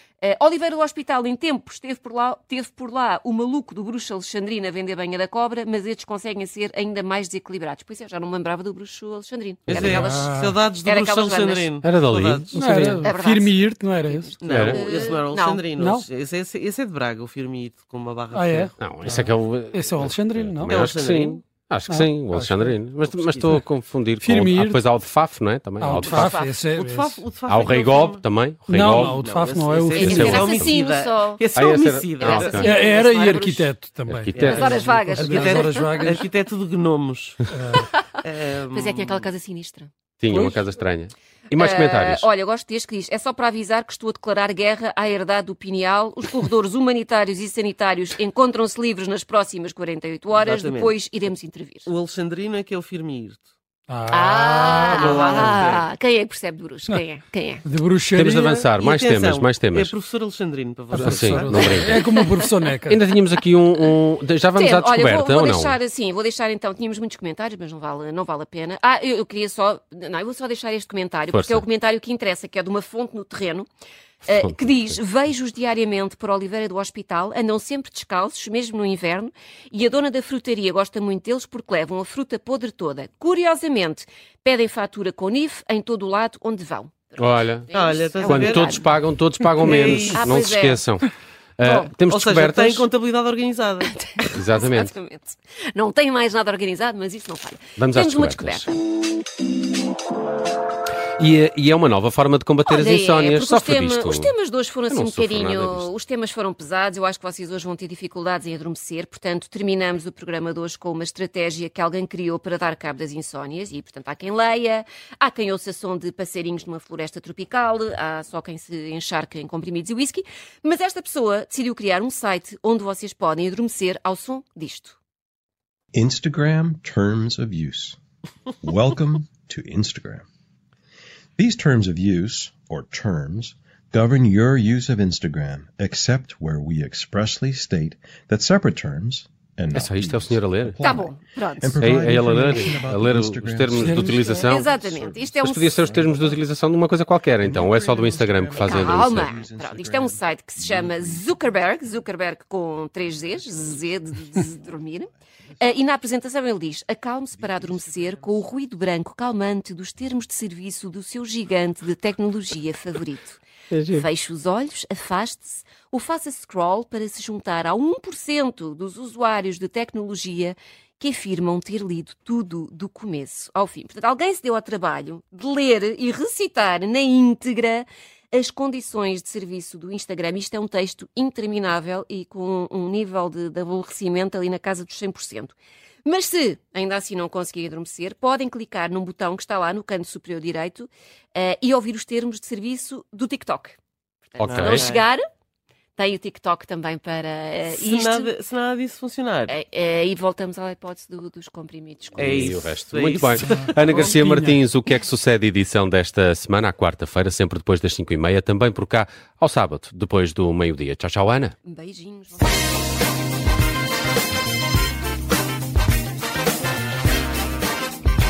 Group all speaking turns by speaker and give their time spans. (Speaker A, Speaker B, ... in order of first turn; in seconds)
Speaker A: 0.2-10.2, 10.8-11.7, 13.0-15.6, 25.9-26.6, 29.9-31.4, 32.2-33.8, 34.4-36.0, 37.8-38.1, 38.7-39.9, 41.5-51.9, 54.1-57.6, 64.5-73.7, 74.2-88.9, 89.7-90.8, 94.0-98.8, 102.7-125.0, 140.8-141.8, 144.4-146.0, 148.6-195.2, 196.0-198.3, 199.5-202.6, 211.7-212.6
Speaker B: 9.7-10.0, 11.8-13.1, 14.5-14.9, 18.8-26.4, 27.4-29.2, 30.0-30.8, 31.5-32.8, 34.1-34.9, 40.2-42.3, 58.1-59.9, 61.0-62.1, 62.9-65.8, 71.3-71.6, 74.2-74.9, 87.2-87.7, 88.2-92.9, 94.3-94.9, 97.8-98.7, 101.2-104.3, 104.9-105.9, 139.7-140.8, 141.8-144.7, 145.4-149.4, 163.7-164.1, 194.4-194.9, 202.2-211.6
Speaker C: 9.7-12.9, 14.4-18.8, 20.7-21.4, 23.1-23.5, 26.5-32.7, 34.5-37.5, 38.2-39.3, 40.3-40.6, 50.3-51.0, 51.9-53.5, 54.6-55.9, 58.8-62.0, 87.7-88.8, 89.6-90.3, 91.7-94.1, 194.4-195.1, 197.7-199.6, 202.2-204.1
Speaker D: 9.9-10.6, 12.5-14.3, 15.8-16.1, 18.3-20.9, 21.9-22.8, 23.4-23.7, 24.2-24.8, 25.8-27.2, 28.7-30.5, 32.6-36.3, 37.5-37.9, 53.9-55.5, 57.6-58.7, 60.9-63.0, 143.7-144.2, 203.4-204.6
Speaker E: 125.9-128.0, 128.6-130.3, 131.4-146.4, 147.4-151.2